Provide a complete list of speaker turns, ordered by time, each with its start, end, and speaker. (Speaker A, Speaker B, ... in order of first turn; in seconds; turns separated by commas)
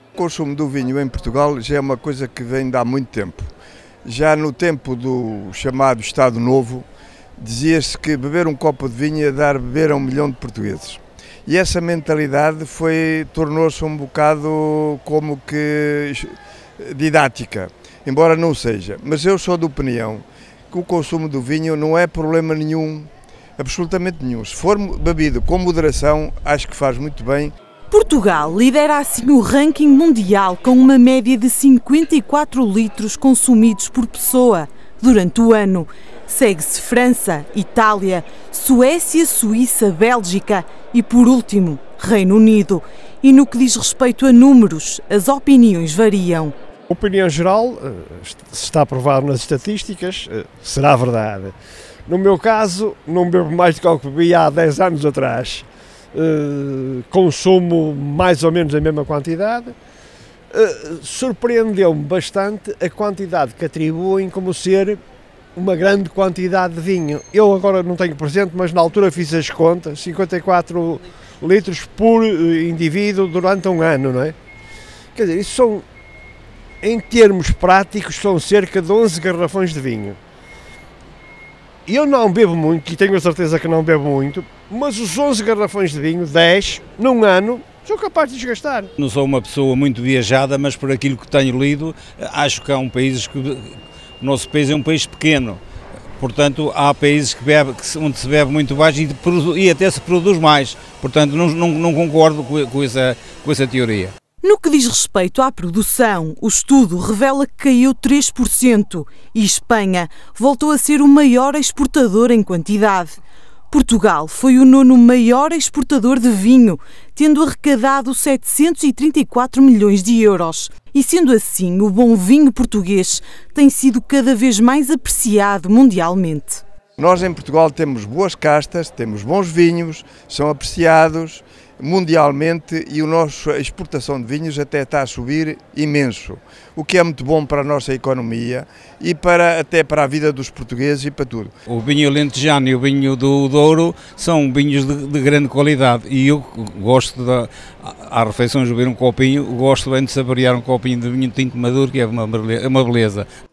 Speaker A: 0.2-3.5, Speaker A: 4.1-6.9, Speaker A: 7.4-27.5, Speaker B: 27.9-46.5, Speaker C: 46.9-51.5, Speaker C: 52.1-59.8, Speaker C: 60.5-65.0, Speaker C: 65.6-74.3, Speaker C: 75.2-75.8, Speaker C: 76.8-80.2, Speaker C: 81.9-88.9, Speaker D: 89.0-95.6, Speaker D: 96.2-104.1, Speaker B: 104.4-113.2, Speaker B: 113.7-126.6, Speaker A: 127.0-141.5, Speaker D: 141.7-153.3